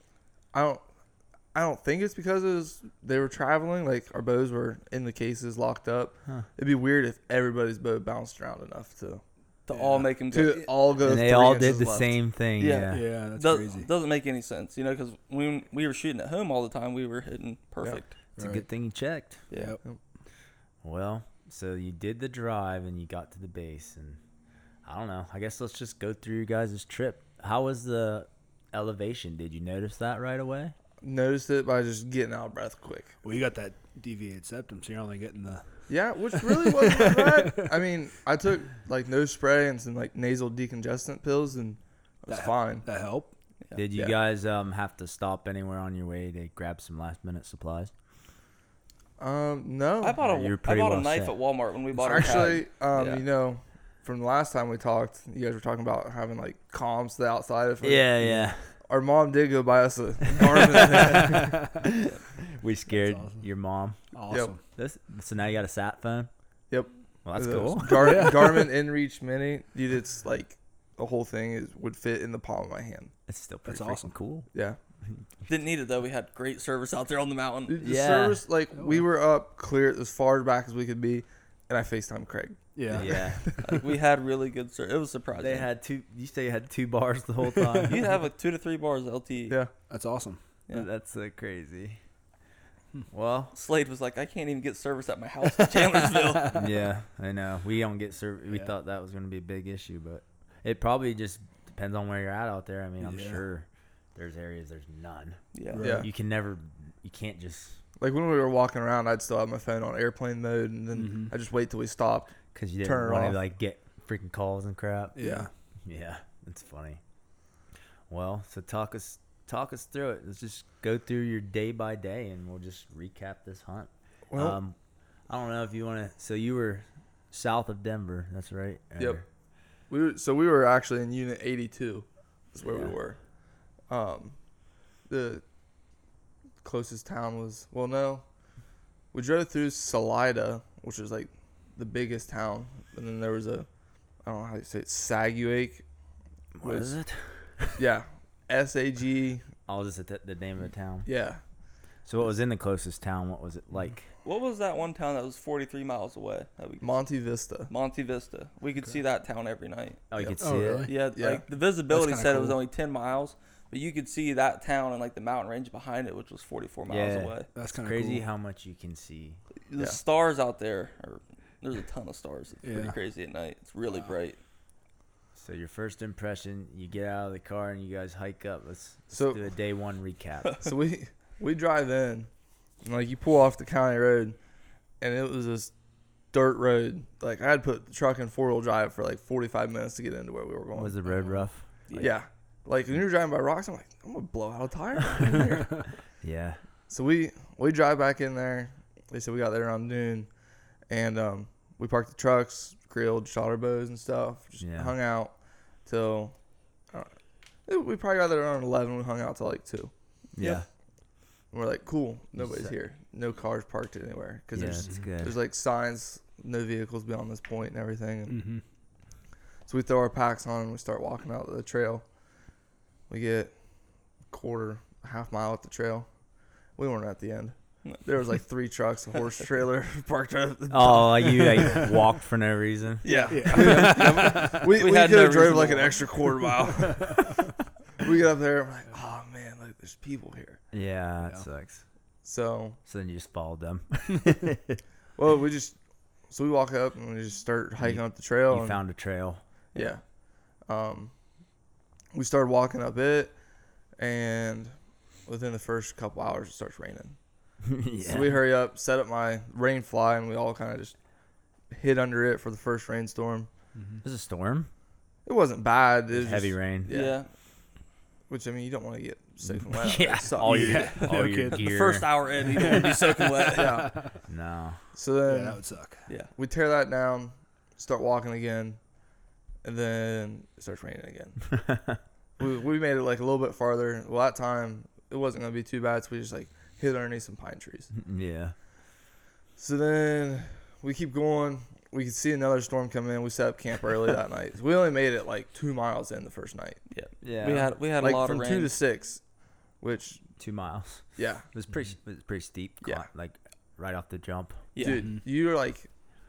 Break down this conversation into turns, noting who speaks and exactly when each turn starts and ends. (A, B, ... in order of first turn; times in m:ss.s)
0:00.5-0:00.8 A
0:01.5-0:09.2 A
0:09.7-0:10.7 B
0:09.7-0:10.1 C
0:10.3-0:12.2 A
0:11.0-0:13.1 D
0:12.6-0:18.1 B
0:12.9-0:13.9 C
0:18.4-0:18.6 C
0:18.4-0:19.4 D
0:19.5-0:19.8 B
0:19.5-0:19.8 C
0:20.8-0:24.2 D
0:24.8-0:30.7 D
0:31.0-0:33.2 A
0:33.2-0:35.6 C
0:35.9-0:42.8 A
0:36.3-0:37.7 C
0:42.3-0:43.3 C
0:43.8-0:47.9 D
0:49.2-0:50.2 A
0:50.0-0:53.3 B
0:50.2-0:51.4 D
0:52.0-1:01.5 A
0:57.8-0:58.7 D
1:00.4-1:04.0 D
1:02.9-1:03.5 C
1:04.1-1:04.6 C
1:04.7-1:06.3 D
1:06.7-1:13.1 A
1:07.2-1:08.5 D
1:08.0-1:08.7 C
1:13.3-1:14.5 D
1:13.7-1:14.1 C
1:14.5-1:14.8 A
1:15.5-1:17.8 B
1:17.7-1:23.8 A
1:17.8-1:18.4 D
1:18.8-1:19.0 C
1:22.8-1:23.2 C
1:22.9-1:23.4 D
1:23.6-1:25.7 B
1:25.4-1:28.0 D
1:27.9-1:29.6 B
1:29.9-1:30.4 C
1:30.7-1:32.0 D
1:33.1-1:33.5 D
1:33.5-1:36.5 B
1:36.2-1:36.5 C
1:36.5-1:45.4 D
1:43.0-1:43.4 C
1:45.5-1:45.9 B
1:45.7-1:46.1 C
1:45.8-1:46.1 A
1:46.0-1:47.8 D
1:48.0-1:53.4 A
1:51.0-1:51.3 C
1:52.5-1:55.2 D
1:55.2-1:55.5 C
1:55.2-1:55.5 A
1:55.8-1:57.0 D
1:58.1-2:04.8 D
2:04.3-2:04.6 A
2:05.3-2:09.2 D
2:09.0-2:09.2 A
2:09.9-2:13.2 A
2:12.6-2:13.0 D
2:13.9-2:14.4 A
2:15.1-2:15.4 A
2:16.6-2:18.2 A
2:19.1-2:23.7 A
2:24.2-2:25.8 A
2:26.6-2:27.8 D
2:26.6-2:27.0 A
2:27.8-2:29.5 A
2:29.7-2:31.1 D
2:31.1-2:31.4 A
2:32.0-2:34.1 D
2:34.2-2:37.0 B
2:36.8-2:37.7 A
2:37.7-2:40.0 B
2:40.1-2:40.9 D
2:40.2-2:40.5 A
2:40.4-2:40.9 C
2:40.9-2:47.5 B
2:41.2-2:41.4 A
2:41.9-2:42.6 C
2:46.9-2:49.4 D
2:47.6-2:48.2 C
2:49.7-2:54.4 B
2:52.6-2:53.0 C
2:55.4-3:00.6 D
2:59.1-2:59.4 A
3:00.6-3:02.3 A
3:02.8-3:04.4 A
3:05.0-3:05.7 A
3:06.3-3:15.9 A
3:10.7-3:11.6 D
3:11.9-3:12.2 B
3:16.2-3:16.6 D
3:16.9-3:20.3 A
3:20.9-3:25.3 A
3:24.6-3:24.9 D
3:25.9-3:26.4 A
3:27.7-3:29.9 A
3:30.4-3:30.7 D
3:31.5-3:38.4 A
3:32.4-3:32.8 D
3:34.5-3:35.4 D
3:38.3-3:38.6 C
3:39.7-3:42.0 A
3:43.1-3:43.5 A
3:44.3-3:46.1 A
3:46.8-3:51.8 A
3:50.7-3:54.1 D
3:51.6-3:51.9 C
3:53.0-3:56.2 B
3:53.0-3:57.5 A
3:53.3-3:54.7 C
3:56.5-3:57.3 C
3:58.0-4:00.6 A
4:00.7-4:01.8 D
4:02.2-4:02.8 A
4:02.9-4:04.8 D
4:05.2-4:05.8 A
4:06.3-4:08.8 A
4:07.8-4:09.4 D
4:09.8-4:10.0 A
4:10.7-4:11.1 A
4:12.1-4:13.4 A
4:14.0-4:14.7 A
4:15.3-4:17.2 A
4:17.6-4:18.4 D
4:18.0-4:21.0 A
4:21.7-4:23.5 A
4:23.8-4:24.0 C
4:24.0-4:24.7 D
4:25.2-4:27.2 A
4:26.1-4:26.9 D
4:26.9-4:27.3 B
4:28.3-4:31.0 A
4:29.4-4:32.1 D
4:30.4-4:34.1 C
4:30.9-4:33.9 B
4:33.5-4:34.0 A
4:34.3-4:34.8 D
4:35.0-4:35.7 A
4:35.2-4:36.0 C
4:36.4-4:38.8 A
4:39.6-4:41.5 A
4:41.6-4:42.0 D
4:42.4-4:47.9 A
4:47.9-4:48.6 D
4:49.6-4:56.8 A
4:56.9-4:58.7 B
4:57.2-4:57.7 D
4:58.0-4:59.2 A
4:59.8-5:00.2 A
5:00.4-5:04.6 D
5:01.2-5:01.4 A
5:04.8-5:05.0 B
5:04.8-5:05.9 A